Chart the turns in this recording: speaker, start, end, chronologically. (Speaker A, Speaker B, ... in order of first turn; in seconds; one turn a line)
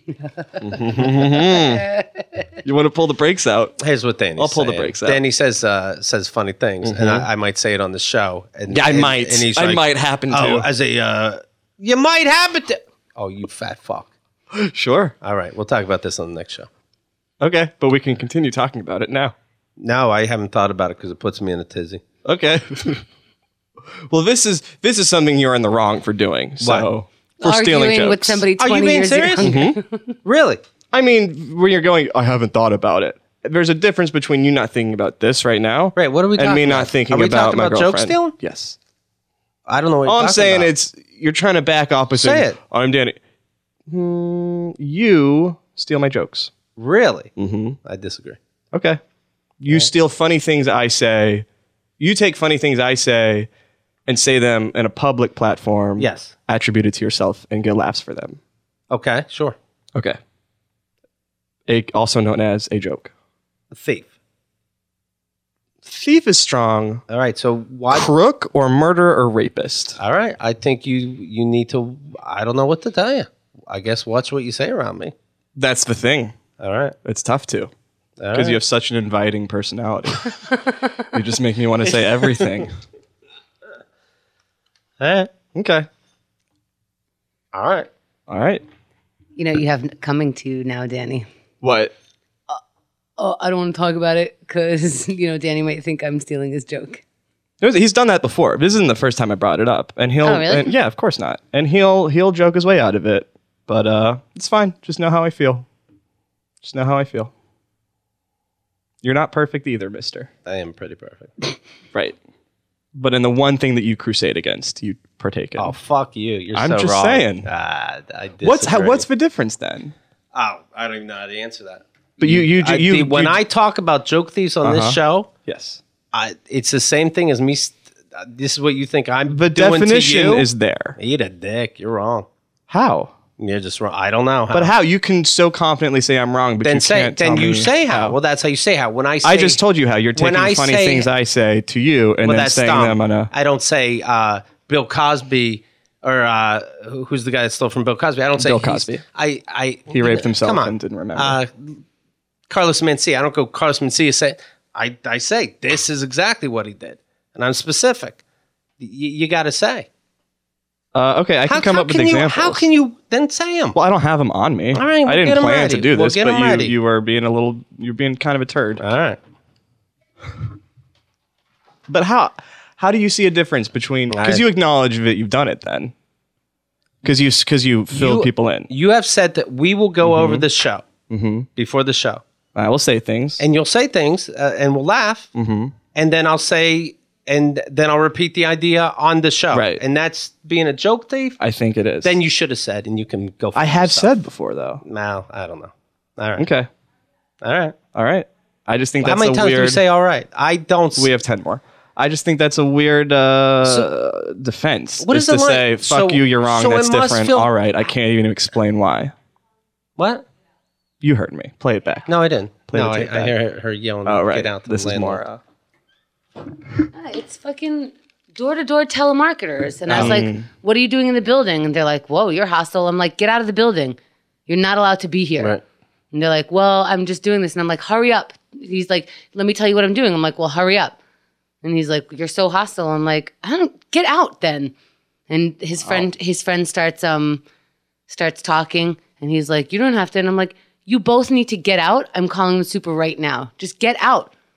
Speaker A: 0.6-1.9
Speaker A: 2.6-3.8
Speaker B: 3.8-14.1
Speaker A: 4.4-5.2
Speaker A: 6.8-7.3
Speaker A: 8.7-10.7
Speaker A: 14.5-15.2
Speaker B: 15.2-16.7
Speaker A: 17.4-19.4
Speaker B: 19.8-22.0
Speaker A: 22.2-23.1
Speaker A: 24.1-28.4
Speaker B: 26.6-26.9
Speaker C: 27.4-30.1
Speaker B: 28.6-29.6
Speaker A: 29.4-29.8
Speaker B: 30.2-30.6
Speaker A: 30.9-38.8
Speaker B: 36.0-38.3
Speaker B: 39.7-40.7
Speaker A: 40.1-43.2
Speaker B: 42.1-42.6
Speaker A: 43.9-46.5
Speaker B: 46.8-47.3
Speaker A: 47.4-47.8
Speaker B: 47.9-48.4
Speaker A: 48.7-49.0
Speaker A: 49.6-51.5
Speaker A: 52.0-53.5
Speaker A: 54.1-58.4
Speaker B: 56.0-56.3
Speaker B: 58.9-59.6
Speaker A: 61.7-63.1
Speaker B: 63.7-64.1
Speaker A: 65.8-67.0
Speaker B: 67.1-68.1
Speaker A: 67.9-70.0
Speaker B: 70.0-75.1
Speaker A: 75.6-76.4
Speaker B: 76.6-77.0
Speaker A: 77.0-77.7
Speaker B: 78.2-78.6
Speaker A: 78.3-82.7
Speaker B: 82.0-82.6
Speaker B: 85.0-85.3
Speaker A: 85.5-85.9
Speaker B: 87.5-87.9
Speaker A: 88.3-88.6
Speaker C: 89.4-91.3
Speaker A: 91.6-91.9
Speaker C: 93.2-97.0
Speaker A: 97.6-105.7
Speaker C: 100.2-100.7
Speaker A: 106.6-107.3
Speaker A: 109.0-110.3
Speaker B: 110.5-111.4
Speaker A: 113.0-115.7
Speaker B: 115.6-119.0
Speaker A: 116.5-117.5
Speaker A: 118.4-120.0
Speaker B: 120.3-125.3
Speaker A: 122.2-123.4
Speaker A: 124.6-125.8
Speaker B: 126.1-132.3
Speaker A: 129.3-131.0
Speaker A: 132.7-133.1
Speaker B: 133.4-134.7
Speaker A: 134.5-138.2
Speaker B: 136.6-139.6
Speaker A: 139.2-143.3
Speaker B: 140.2-141.1
Speaker B: 142.2-151.8
Speaker A: 148.4-149.0
Speaker A: 149.9-151.4
Speaker B: 152.5-158.2
Speaker B: 158.8-159.9
Speaker A: 160.9-162.6
Speaker B: 161.5-163.8
Speaker A: 163.8-168.8
Speaker B: 164.7-166.7
Speaker B: 168.8-169.2
Speaker A: 171.9-175.9
Speaker B: 174.1-174.4
Speaker A: 177.0-178.7
Speaker B: 177.9-180.9
Speaker A: 180.0-180.5
Speaker A: 181.1-181.5
Speaker B: 181.6-182.2
Speaker A: 182.6-183.4
Speaker B: 183.4-185.3
Speaker A: 185.3-185.8
Speaker B: 185.9-191.4
Speaker A: 189.5-189.8
Speaker A: 191.4-192.2
Speaker B: 192.0-194.2
Speaker A: 193.6-194.8
Speaker B: 194.8-196.5
Speaker A: 196.4-196.7
Speaker B: 197.4-197.8
Speaker A: 197.9-199.8
Speaker B: 199.0-201.1
Speaker A: 201.0-209.1
Speaker B: 205.0-207.5
Speaker B: 210.0-210.2
Speaker A: 211.0-212.1
Speaker B: 212.1-215.2
Speaker A: 212.7-213.3
Speaker A: 214.1-215.4
Speaker C: 216.9-225.6
Speaker B: 219.9-220.2
Speaker A: 219.9-220.5
Speaker C: 226.1-231.0
Speaker C: 231.6-234.7
Speaker C: 235.3-237.4
Speaker C: 238.1-244.3